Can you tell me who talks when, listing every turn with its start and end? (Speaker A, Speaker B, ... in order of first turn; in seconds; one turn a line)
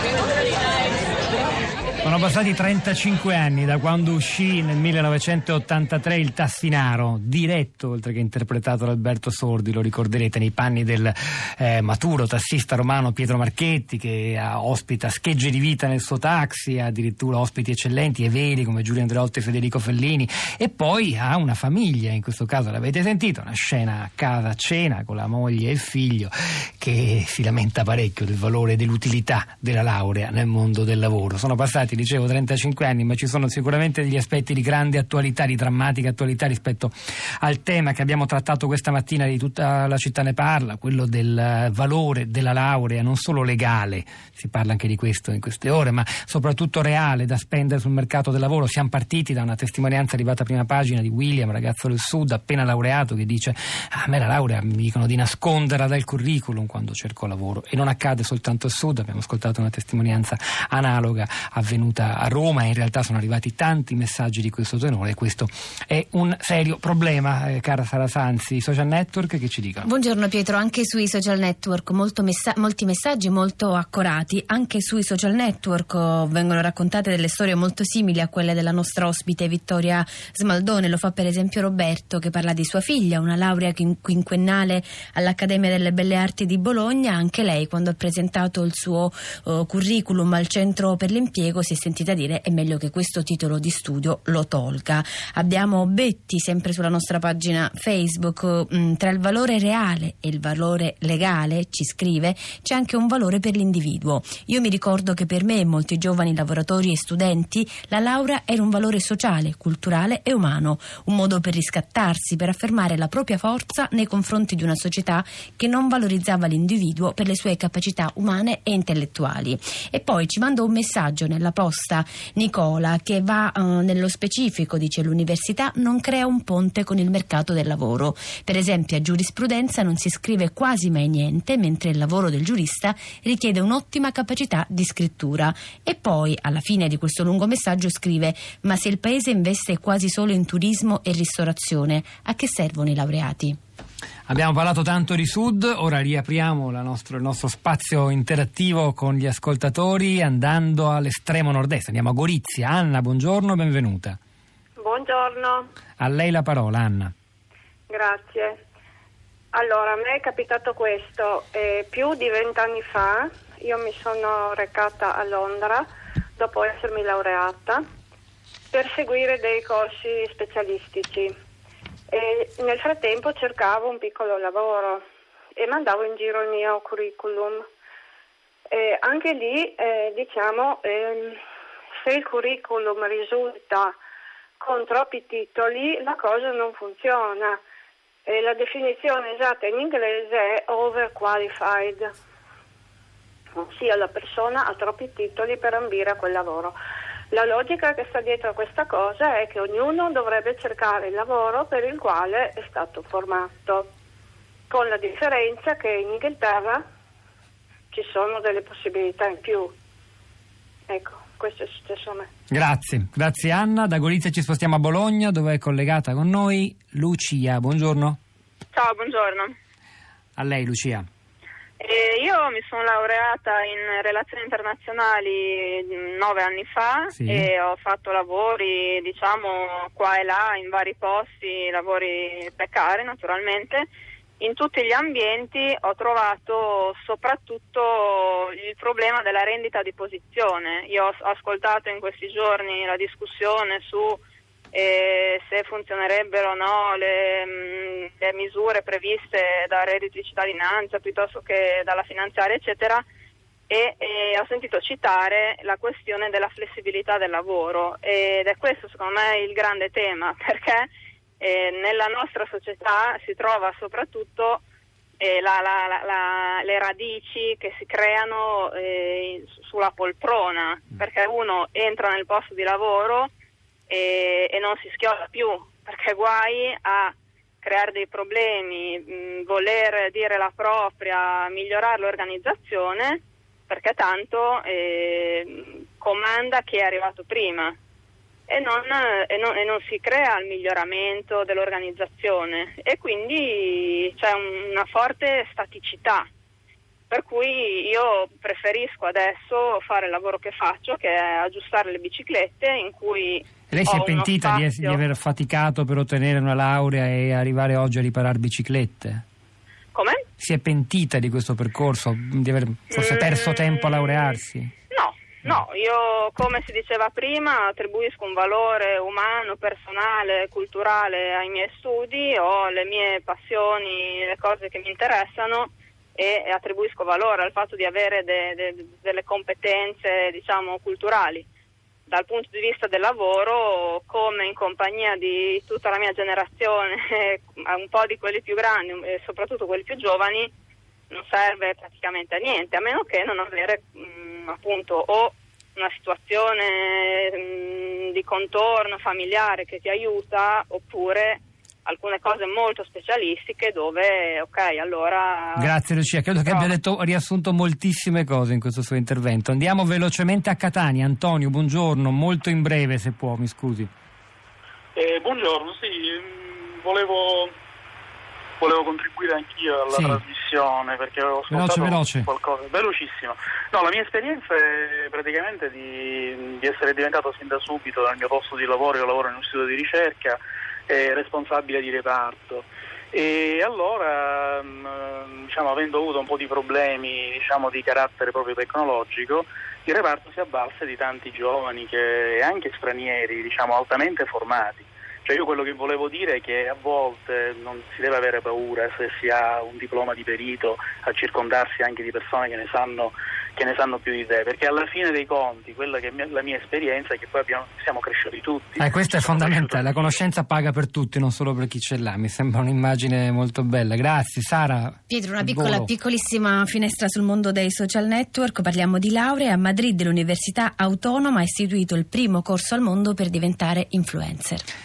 Speaker A: 2.0-69.9
Speaker B: 69.8-143.6
Speaker A: 144.3-154.2
Speaker C: 154.8-155.7
Speaker A: 156.0-157.1
Speaker C: 157.9-158.6
Speaker C: 159.5-165.9
Speaker C: 166.4-167.8
Speaker C: 168.7-171.3
Speaker C: 172.1-175.0
Speaker C: 175.6-177.7
Speaker C: 178.7-181.4
Speaker C: 182.0-184.0
Speaker C: 184.6-187.6
Speaker C: 188.3-192.1
Speaker C: 193.6-196.8
Speaker C: 197.3-203.9
Speaker C: 204.7-206.8
Speaker C: 207.9-209.7
Speaker C: 210.9-212.3
Speaker A: 212.5-218.2
Speaker D: 218.7-219.5
Speaker A: 220.4-221.1
Speaker D: 221.8-233.9
Speaker A: 227.2-227.5
Speaker D: 234.4-244.2
Speaker D: 244.7-253.1
Speaker D: 253.7-260.9
Speaker D: 261.4-264.6
Speaker D: 265.2-273.3
Speaker D: 273.9-287.8
Speaker D: 288.5-296.3
Speaker D: 297.1-305.0
Speaker A: 303.7-309.2
Speaker D: 309.9-310.2
Speaker A: 310.4-314.7
Speaker D: 312.9-314.3
Speaker D: 314.9-331.5
Speaker D: 332.1-340.5
Speaker D: 341.1-355.7
Speaker A: 355.6-363.9
Speaker D: 356.5-356.7
Speaker E: 365.0-367.5
Speaker E: 368.6-410.1
Speaker A: 369.9-370.2
Speaker A: 371.5-372.3
Speaker A: 408.8-415.9
Speaker B: 415.1-424.7